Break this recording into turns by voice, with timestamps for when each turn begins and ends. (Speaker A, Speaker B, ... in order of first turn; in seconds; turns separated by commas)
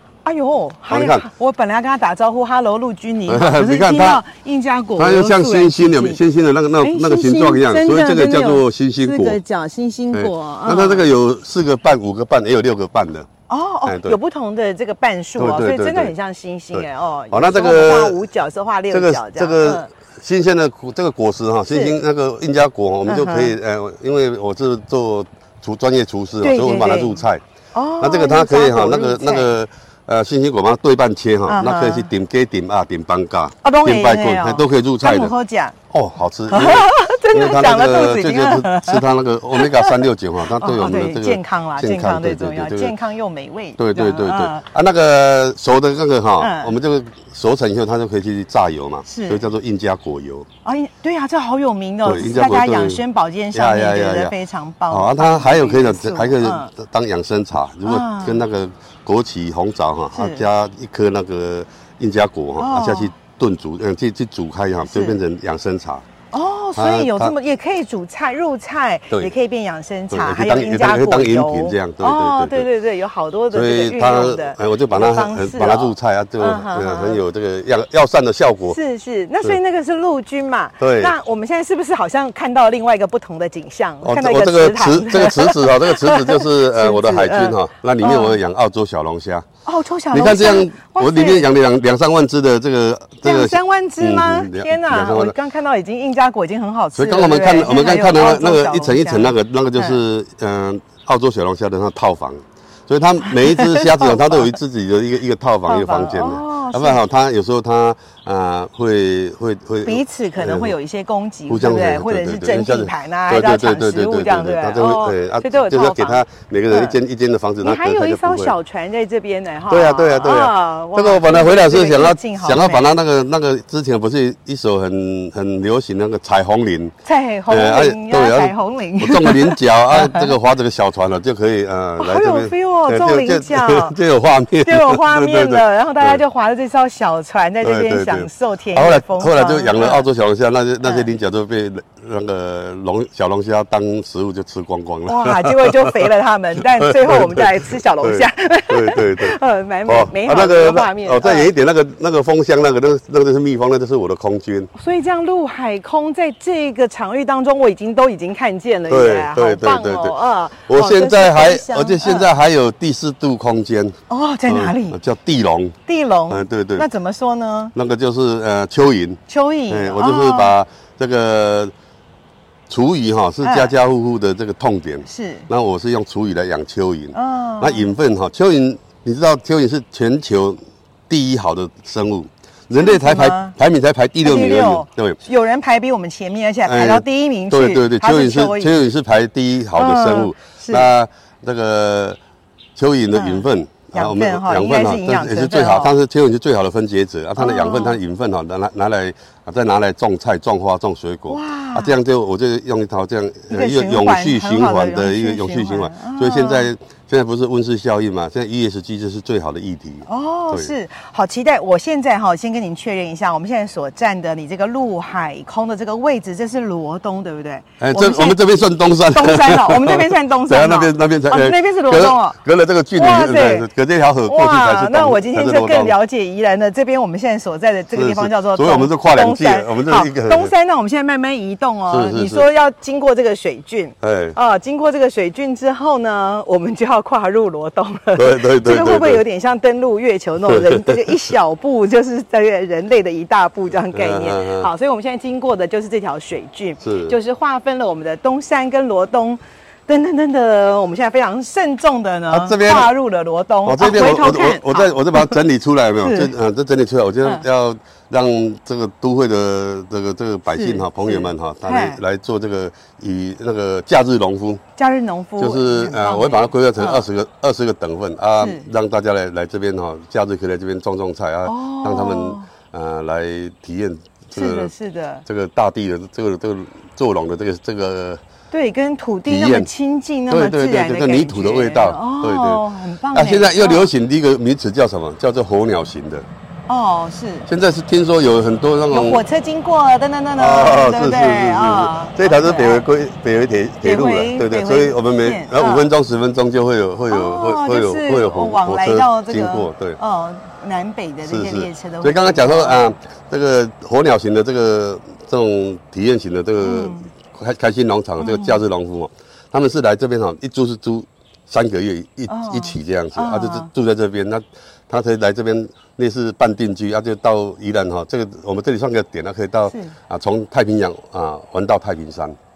Speaker A: 0.2-6.2, Speaker B: 0.9-1.3, Speaker B: 3.3-4.2, Speaker B: 5.0-9.4, Speaker A: 6.8-11.1, Speaker B: 10.1-13.3, Speaker A: 13.5-19.9, Speaker B: 13.9-14.2, Speaker B: 15.4-16.1, Speaker B: 16.7-18.2, Speaker B: 18.9-27.4, Speaker A: 21.7-22.0, Speaker A: 23.1-23.6, Speaker A: 26.4-29.5, Speaker B: 28.0-35.4, Speaker A: 31.5-32.1, Speaker A: 33.6-35.8, Speaker B: 35.9-43.0, Speaker A: 36.5-39.0, Speaker A: 39.5-44.6, Speaker B: 43.8-50.5, Speaker A: 46.4-46.7, Speaker A: 49.0-49.5, Speaker A: 50.6-56.7, Speaker B: 52.0-53.0, Speaker B: 53.5-54.4, Speaker B: 54.9-66.0, Speaker A: 57.9-58.4, Speaker A: 60.1-60.5, Speaker A: 62.6-63.1, Speaker A: 64.9-65.2, Speaker A: 66.3-77.2, Speaker B: 66.8-67.3, Speaker B: 70.1-72.7, Speaker B: 73.5-78.8, Speaker A: 78.7-88.4, Speaker B: 80.8-81.1, Speaker B: 84.0-89.5, Speaker A: 89.7-91.5, Speaker B: 90.1-95.4, Speaker A: 93.2-100.0, Speaker B: 97.0-110.8, Speaker A: 103.3-104.5, Speaker A: 105.7-107.0, Speaker A: 109.8-117.0, Speaker B: 111.5-118.5, Speaker A: 117.6-122.9, Speaker B: 119.7-126.9, Speaker A: 127.0-130.3, Speaker B: 127.5-136.2, Speaker A: 132.0-134.0, Speaker A: 134.6-140.1, Speaker B: 137.6-146.0, Speaker A: 140.8-141.1, Speaker A: 145.1-151.5, Speaker B: 146.6-149.4, Speaker B: 149.9-154.7, Speaker A: 154.7-162.3, Speaker B: 158.9-164.0, Speaker A: 164.1-165.0, Speaker B: 164.5-165.8, Speaker A: 165.9-167.7, Speaker B: 166.3-166.9, Speaker B: 167.7-171.7, Speaker A: 169.3-170.6, Speaker B: 172.7-185.2, Speaker A: 173.4-173.7, Speaker A: 175.1-175.5, Speaker A: 177.1-177.9, Speaker A: 182.8-183.6, Speaker A: 184.2-188.8, Speaker B: 186.7-192.2, Speaker A: 189.8-190.9, Speaker B: 192.8-210.7, Speaker A: 193.1-195.9, Speaker A: 197.4-198.0, Speaker A: 201.3-202.0, Speaker A: 203.5-206.7, Speaker A: 210.1-218.4, Speaker B: 217.8-226.0, Speaker A: 219.1-222.4, Speaker A: 222.9-223.7, Speaker A: 224.2-255.4, Speaker B: 227.9-230.5, Speaker B: 231.9-232.5, Speaker B: 234.0-234.4, Speaker B: 238.2-239.2, Speaker B: 240.4-241.1, Speaker B: 243.9-244.7, Speaker B: 246.8-247.2, Speaker B: 252.3-252.9, Speaker B: 253.7-264.6, Speaker A: 256.0-256.3, Speaker A: 260.5-262.0, Speaker A: 264.8-267.1, Speaker B: 265.4-274.7, Speaker A: 268.4-268.7, Speaker A: 271.4-272.5, Speaker A: 274.3-275.3, Speaker B: 275.3-278.2, Speaker A: 278.5-283.9, Speaker B: 279.3-279.7, Speaker B: 280.3-286.3, Speaker A: 286.7-287.5, Speaker B: 287.5-289.2, Speaker A: 288.9-292.9, Speaker B: 290.3-300.0, Speaker A: 293.8-295.9, Speaker A: 297.1-302.9, Speaker B: 301.2-322.4, Speaker A: 306.6-307.1, Speaker A: 308.2-308.6, Speaker A: 312.3-313.7, Speaker A: 319.7-319.9